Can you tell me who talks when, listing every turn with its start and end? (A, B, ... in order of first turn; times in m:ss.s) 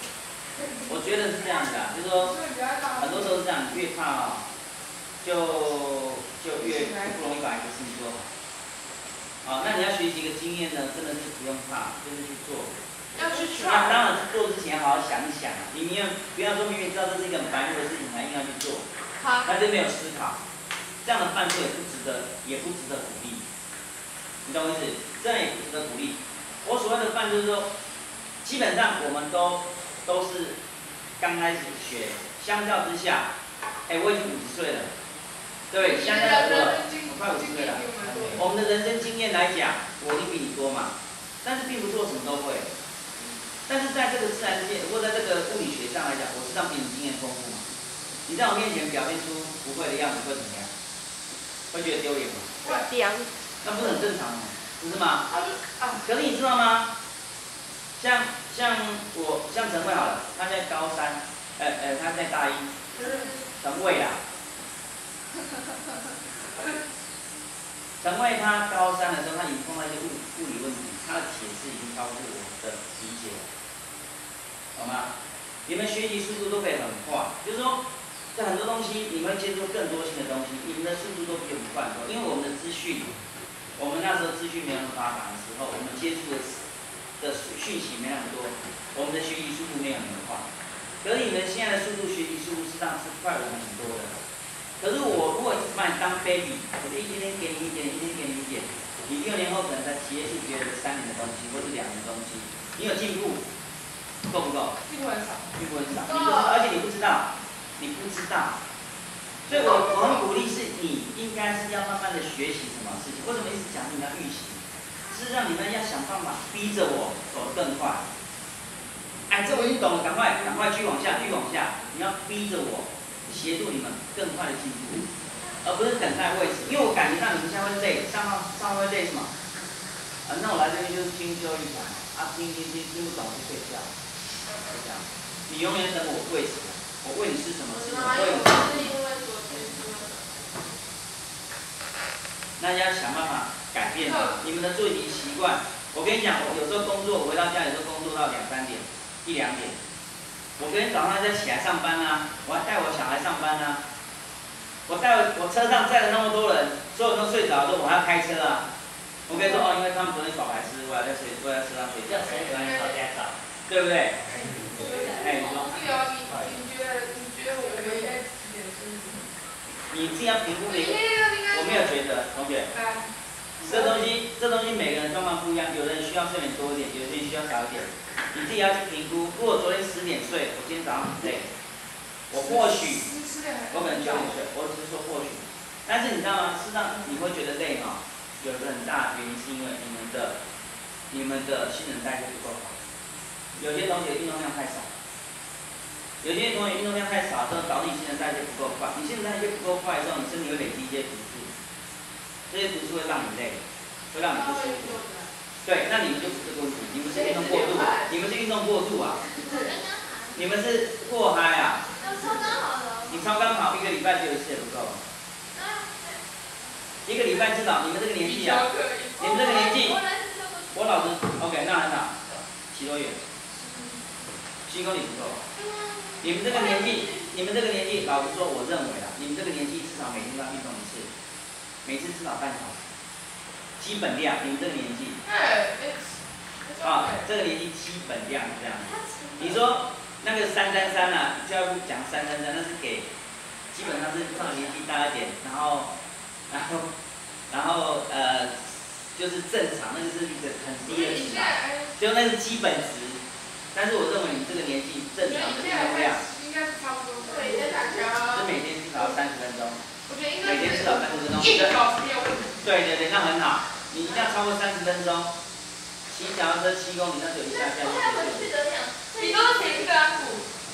0:00.9-0:02.3 A
0:02.1-0:03.4 B
0:03.0-0:04.4 A
0:05.2-0:08.3 A
0:06.5-0:07.2 B
0:09.4-0:12.8 A
0:13.1-0:14.1 B
0:13.5-0:18.8 A
0:19.2-0:19.5 C
0:19.4-0:20.4 A
0:21.0-0:23.4 A
0:24.4-0:27.7 A
0:28.4-0:30.6 A
0:31.2-0:33.3 A
0:33.9-0:34.9 A
0:35.7-0:42.7 A
0:35.8-0:38.4 B
0:38.0-0:38.4 D
0:43.7-0:47.6 A
0:48.3-0:50.7 A
0:51.7-0:52.6 A
0:52.6-0:53.3 C
0:53.6-0:55.3 A
0:55.4-0:55.9 B
0:55.9-0:56.9 A
0:58.0-1:02.7 A
1:02.9-1:03.5 C
1:03.0-1:03.3 B
1:03.6-1:04.2 A
1:08.0-1:13.5 A
1:14.8-1:15.1 A
1:15.7-1:17.8 A
1:18.4-1:23.1 A
1:23.8-1:26.6 A
1:27.2-1:30.5 A
1:31.0-1:34.2 A
1:34.8-1:43.5 A
1:44.3-1:44.8 A
1:44.9-1:45.5 B
1:45.6-1:48.6 A
1:46.0-1:46.6 C
1:49.5-1:58.1 A
1:49.5-1:50.2 B
1:59.3-2:05.0 A
1:59.4-2:01.3 B
2:05.6-2:09.3 A
2:10.2-2:13.9 A
2:14.7-2:19.0 A
2:17.7-2:20.5 C
2:22.6-2:29.8 A
2:24.0-2:24.4 B
2:30.6-2:33.8 A
2:34.9-2:38.7 A
2:39.3-2:42.9 A
2:39.4-2:39.7 B
2:42.0-2:43.4 D
2:43.7-2:44.2 A
2:44.3-2:49.3 B
2:44.7-2:45.8 C
2:45.2-2:45.7 A
2:46.3-2:46.6 D
2:47.6-2:48.2 C
2:49.9-2:52.7 A
2:50.7-2:52.0 B
2:52.7-2:54.2 B
2:53.6-3:01.5 A
3:02.3-3:03.1 A
3:02.3-3:04.4 B
3:03.7-3:10.4 A
3:11.1-3:12.8 A
3:13.6-3:14.9 A
3:16.2-3:21.5 A
3:22.5-3:23.6 A
3:24.1-3:25.0 A
3:24.3-3:25.3 C
3:25.6-3:29.3 A
3:27.0-3:28.1 C
3:29.3-3:30.5 C
3:30.4-3:31.9 A
3:32.0-3:33.4 C
3:33.1-3:35.0 A
3:35.5-3:36.2 C
3:37.1-3:38.7 A
3:38.2-3:39.8 B
3:39.2-3:40.0 A
3:39.2-3:40.9 C
3:40.7-3:43.2 A
3:44.7-3:45.4 A
3:45.6-3:47.3 C
3:46.2-3:51.1 A
3:51.8-3:52.9 A
3:53.8-3:55.2 A
3:55.2-3:57.3 B
3:56.8-4:03.1 A
3:58.8-3:59.7 C
4:03.7-4:05.9 A
4:06.5-4:06.9 A
4:07.5-4:13.2 A
4:10.9-4:12.0 B
4:13.7-4:16.2 A
4:15.2-4:18.0 B
4:17.2-4:18.5 C
4:18.3-4:19.8 A
4:20.1-4:22.6 B
4:20.4-4:21.8 A
4:22.6-4:25.3 A
4:24.0-4:24.3 C
4:26.1-4:28.5 A
4:27.5-4:29.9 C
4:29.1-4:30.5 B